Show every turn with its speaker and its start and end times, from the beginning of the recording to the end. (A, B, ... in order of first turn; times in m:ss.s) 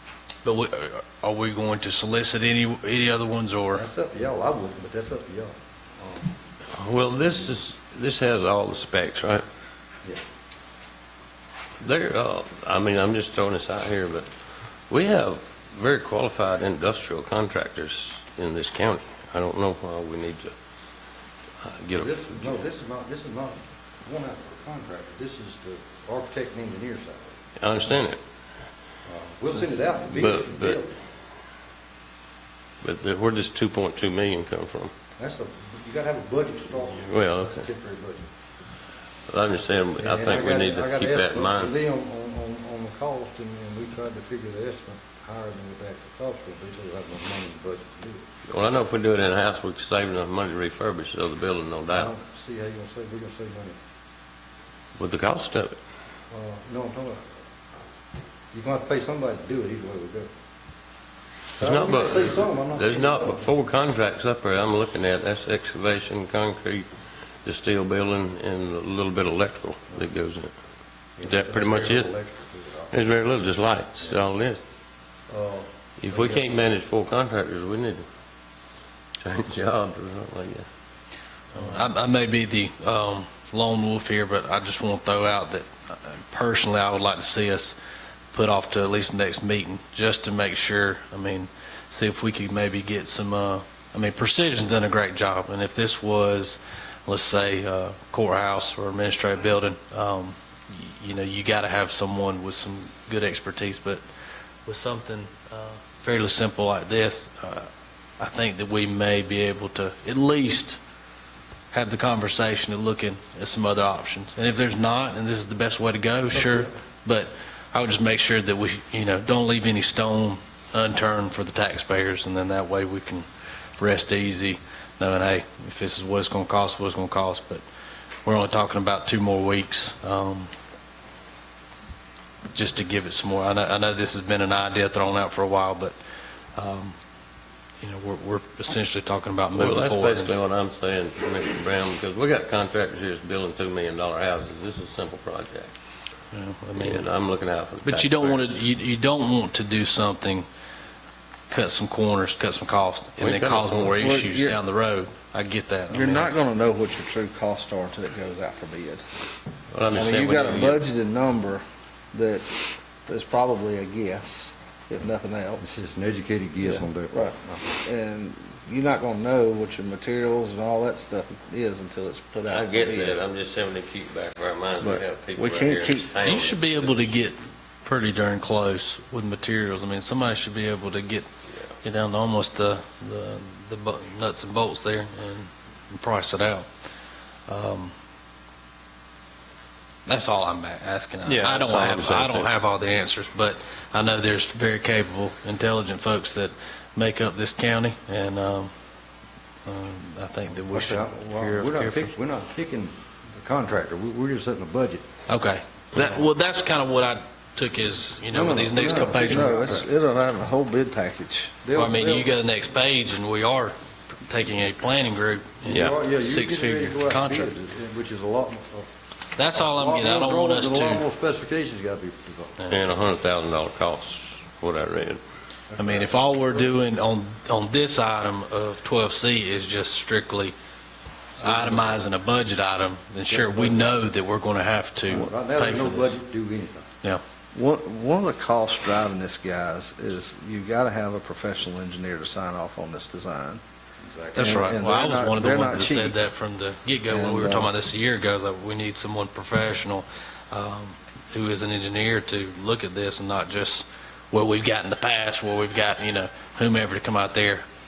0:00.4-0:03.8 A
0:03.7-0:06.3 B
0:06.7-0:09.4 C
0:11.8-0:14.3 C
0:14.9-0:20.5 C
0:21.6-0:22.6 C
0:21.9-0:27.4 B
0:27.6-0:28.2 C
0:29.0-0:31.0 B
0:30.0-0:30.8 C
0:32.8-0:34.9 C
0:35.2-0:38.3 B
0:37.0-0:37.7 C
0:39.3-0:41.7 C
0:40.0-0:48.3 B
0:48.5-0:52.1 C
0:51.9-0:53.8 B
0:55.0-0:55.8 C
0:56.3-0:57.3 B
0:58.5-1:00.3 B
1:01.6-1:06.9 C
1:01.6-1:03.5 B
1:07.4-1:10.5 C
1:11.2-1:13.0 B
1:11.2-1:12.1 C
1:12.9-1:14.6 C
1:15.3-1:16.5 B
1:16.0-1:18.0 C
1:19.2-1:20.6 C
1:21.5-1:27.8 A
1:28.3-1:44.0 A
1:44.6-1:47.7 A
1:48.2-1:50.8 A
1:51.7-2:03.3 A
2:03.8-2:07.6 A
2:08.2-2:10.5 A
2:12.5-2:16.0 A
2:16.5-2:17.0 A
2:17.8-2:20.3 A
2:19.5-2:25.7 C
2:26.3-2:27.1 A
2:26.8-2:28.6 C
2:27.8-2:30.5 A
2:31.5-2:36.3 A
2:33.2-2:34.0 C
2:34.0-2:34.6 D
2:35.9-2:39.2 D
2:39.7-2:40.8 C
2:39.9-2:45.7 D
2:45.6-2:47.8 B
2:47.1-2:53.2 D
2:52.5-2:57.2 C
2:54.8-2:56.2 D
2:56.2-3:01.3 A
3:01.8-3:06.7 A
3:07.5-3:07.9 A
3:10.0-3:18.7 A
3:11.2-3:12.5 C
3:19.6-3:22.1 A
3:20.7-3:25.0 B
3:25.3-3:29.8 A
3:28.3-3:29.9 B
3:28.7-3:31.6 D
3:31.6-3:32.3 B
3:31.7-3:37.5 A
3:35.7-3:38.9 B
3:39.4-3:41.0 A
3:39.5-3:42.6 B
3:42.6-3:42.8 A
3:42.7-3:45.2 C
3:45.7-3:46.7 B
3:45.8-3:50.5 A
3:51.4-3:56.2 A
3:51.4-3:52.0 B
3:53.3-3:54.0 B
3:55.1-3:56.9 B
3:57.5-4:03.6 D
4:04.0-4:04.7 B
4:04.4-4:17.6 A
4:04.4-4:06.2 D
4:07.1-4:07.7 D